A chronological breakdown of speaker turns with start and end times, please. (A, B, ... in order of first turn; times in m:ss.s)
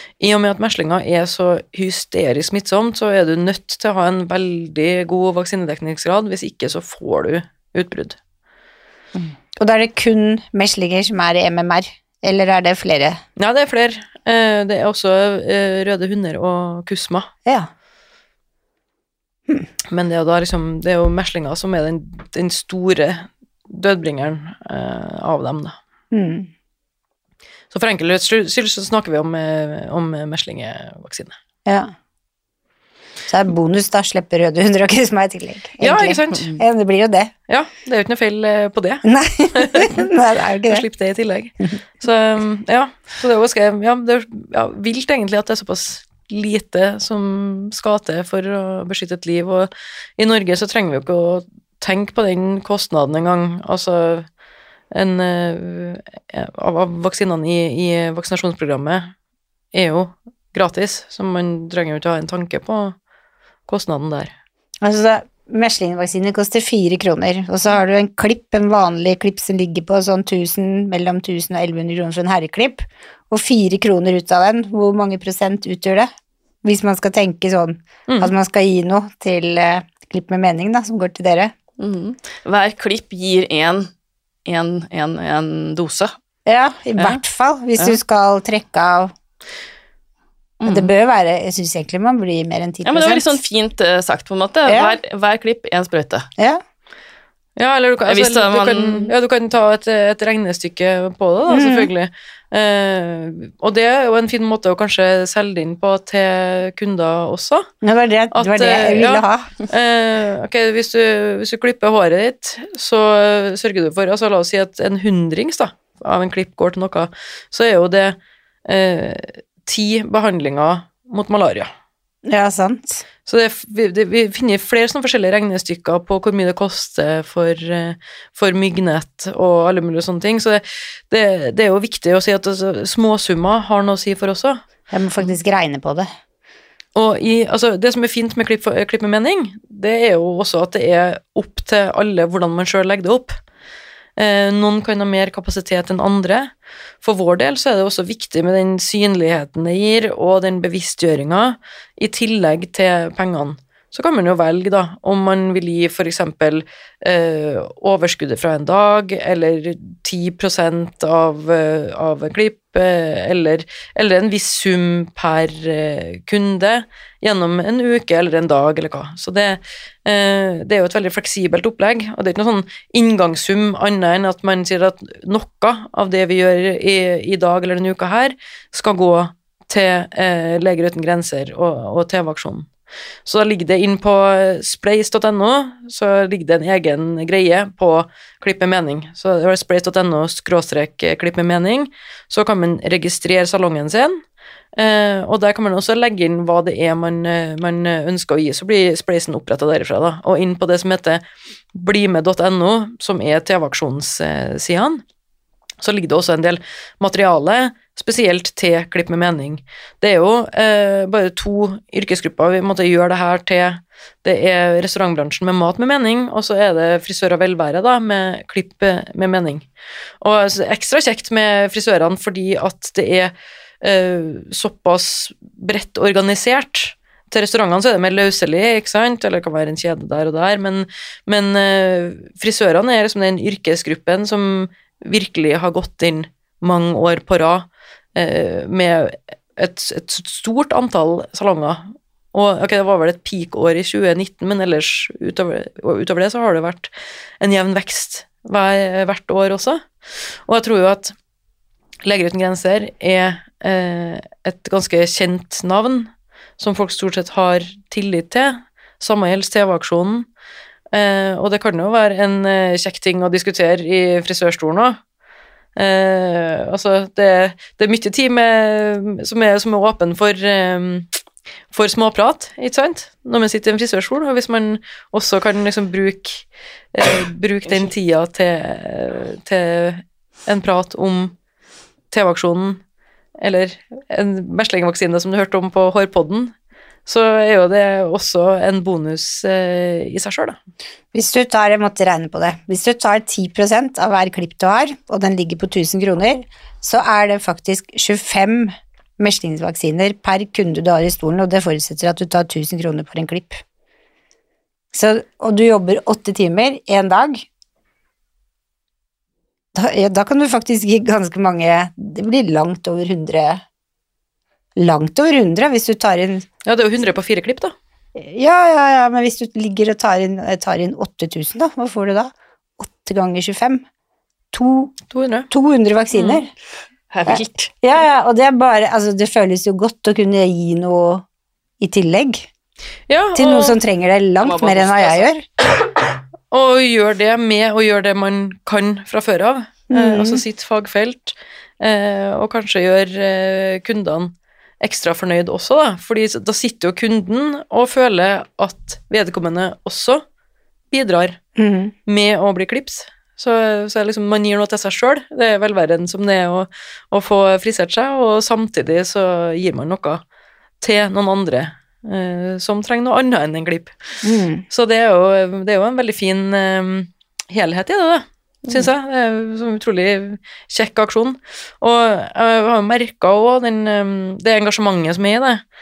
0:00.2-0:08.2 A
0:09.1-0:13.2 B
0:13.4-0:17.3 A
0:19.9-0:25.8 A
0:26.1-0:26.5 B
0:27.7-0:31.4 A
0:31.6-0:31.9 B
0:33.3-0:37.3 B
0:35.8-0:36.5 A
0:37.5-0:40.1 A
0:39.0-0:40.8 B
0:40.7-0:54.3 A
0:54.9-0:59.1 A
0:59.7-1:03.0 A
1:03.7-1:04.3 A
1:04.8-1:16.1 B
1:16.6-1:21.5 B
1:21.8-1:23.9 C
1:24.4-1:26.1 C
1:26.5-1:29.1 B
1:30.6-1:30.9 C
1:30.6-1:33.3 B
1:32.8-1:36.3 C
1:34.7-1:35.0 B
1:37.6-1:47.7 A
1:38.1-1:39.1 C
1:41.5-1:41.9 B
1:47.8-1:49.5 B
1:48.3-2:01.7 A
2:02.2-2:03.0 B
2:03.2-2:14.6 A
2:14.9-2:16.1 B
2:16.9-2:23.4 A
2:24.2-2:26.5 A
2:27.0-3:02.7 A
3:03.2-3:14.2 A
3:14.8-3:21.2 A
3:21.7-3:25.0 A
3:25.8-3:39.6 A
3:40.2-4:09.8 A
4:10.5-4:11.1 A
4:12.0-4:20.3 A
4:20.9-4:25.0 A
4:25.8-4:31.2 A
4:31.7-4:41.3 A
4:42.1-4:42.8 A
4:43.4-4:46.5 A
4:47.0-4:50.6 A
4:51.1-5:03.6 B
5:04.9-5:07.5 B
5:09.7-5:13.6 B
5:14.8-5:16.4 B
5:16.6-5:17.7 A
5:18.2-5:23.8 B
5:24.5-5:25.0 B
5:25.1-5:25.5 A
5:25.5-5:26.5 B
5:27.1-5:27.7 C
5:27.2-5:31.2 B
5:31.8-5:32.5 B
5:33.1-5:33.8 A
5:33.3-5:35.4 B
5:34.4-5:35.3 C
5:36.5-5:50.2 A
5:39.9-5:40.4 B
5:50.9-5:51.4 A
5:51.6-5:51.9 B
5:52.1-6:00.2 A
6:00.8-6:03.9 A
6:04.2-6:04.6 B
6:04.7-6:15.6 A